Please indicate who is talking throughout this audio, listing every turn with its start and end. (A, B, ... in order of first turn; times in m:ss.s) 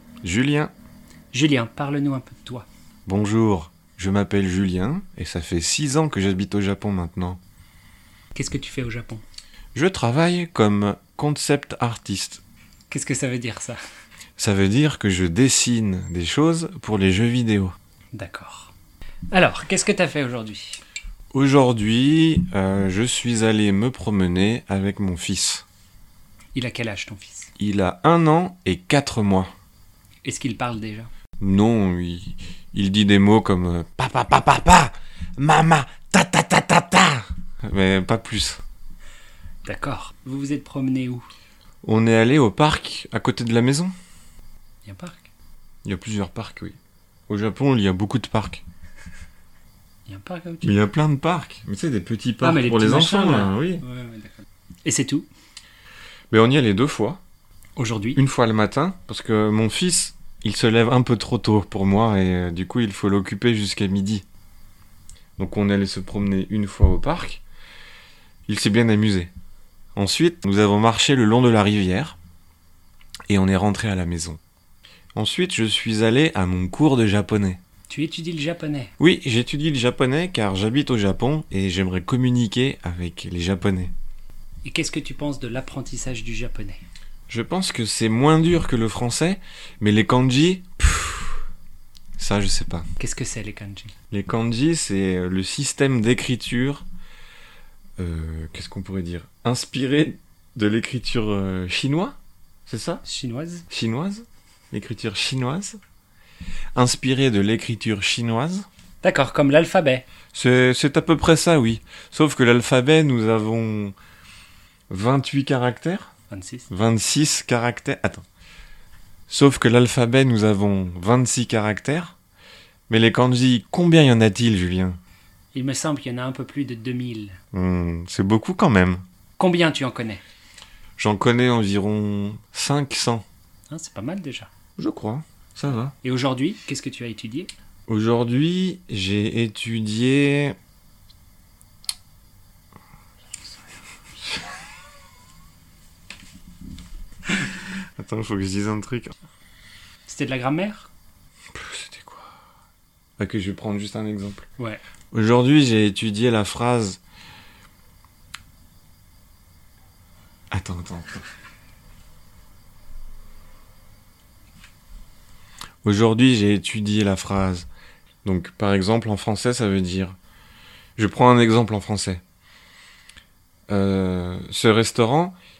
0:00.2-0:00.7 A
0:01.3-0:02.7 B
0:03.0-0:07.4 A
0:08.3-0:09.2 B
0:09.7-0:12.4 A
0:12.9-0:13.8 B
0:14.4-0:17.7 A
0:18.1-0:18.7 B
0:19.3-0:20.8 B
0:21.3-0:25.6 A
0:26.5-0:27.5 B
0:27.6-0:29.5 A
0:30.2-0:31.1 B
0:31.4-0:38.6 A
0:39.6-0:41.3 B
0:41.8-0:43.9 A
0:44.8-0:45.3 B
0:45.8-0:46.8 A
0:47.3-0:48.6 A
0:50.1-0:50.8 B
0:50.6-0:53.8 A
0:52.4-0:55.3 B
0:56.3-0:57.2 A
0:57.8-0:58.2 B
0:58.2-1:04.2 A
1:05.4-1:07.4 A
1:08.5-1:09.3 A
1:09.9-1:12.2 A
1:13.3-1:14.4 A
1:15.1-1:17.6 A
1:17.9-1:18.9 B
1:19.0-1:23.9 A
1:24.6-1:26.8 B
1:27.3-1:31.4 A
1:32.2-1:32.8 A
1:33.0-1:33.9 B
1:34.1-1:36.8 A
1:38.0-1:43.0 A
1:43.0-1:43.6 B
1:43.7-1:45.8 A
1:46.7-1:48.6 A
1:49.0-1:50.0 B
1:50.3-1:53.9 A
1:54.9-1:56.1 A
1:56.3-1:56.7 B
1:56.7-1:58.2 A
1:59.3-2:02.1 A
2:02.9-2:05.0 A
2:05.5-2:07.4 B
2:07.5-2:09.0 A
2:09.4-2:10.2 B
2:11.0-2:13.2 A
2:13.7-2:14.5 B
2:14.8-2:15.9 A
2:16.0-2:17.5 B
2:17.9-2:20.6 A
2:28.0-2:29.1 A
2:30.1-2:30.9 B
2:31.5-2:32.3 A
2:33.2-2:34.5 A
2:35.1-2:37.0 A
2:40.5-2:41.2 A
2:45.8-2:47.7 A
2:48.2-2:50.2 A
2:51.0-2:52.2 A
2:53.7-2:55.4 A